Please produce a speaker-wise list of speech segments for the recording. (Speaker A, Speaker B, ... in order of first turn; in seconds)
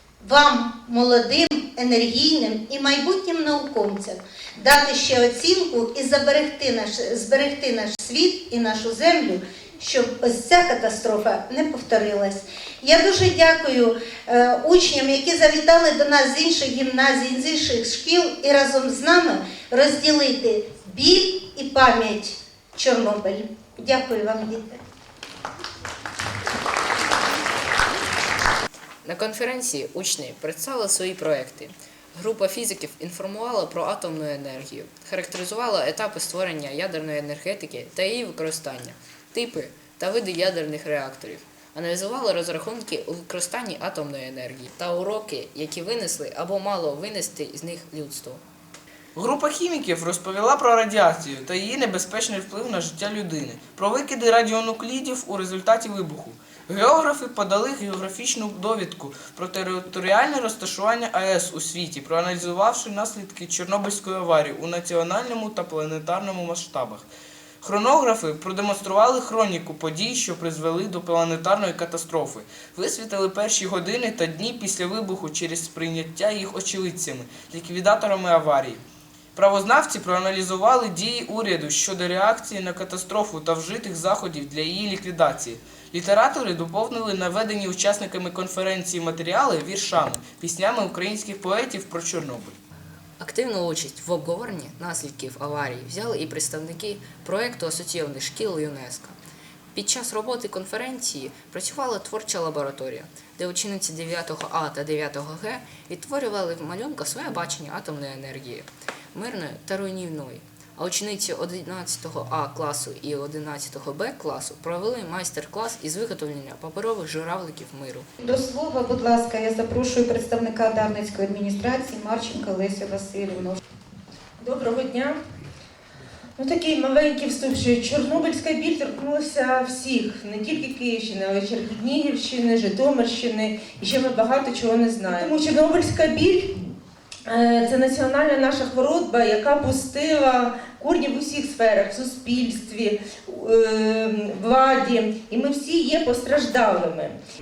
Speaker A: 0.2-24.8
Speaker B: 29.1-48.4, 93.2-99.2, 99.7-118.1
Speaker C: 49.1-67.1, 67.6-78.8, 79.3-92.6
Speaker D: 118.2-123.6
Speaker E: 124.4-125.2, 126.4-136.5, 137.3-147.2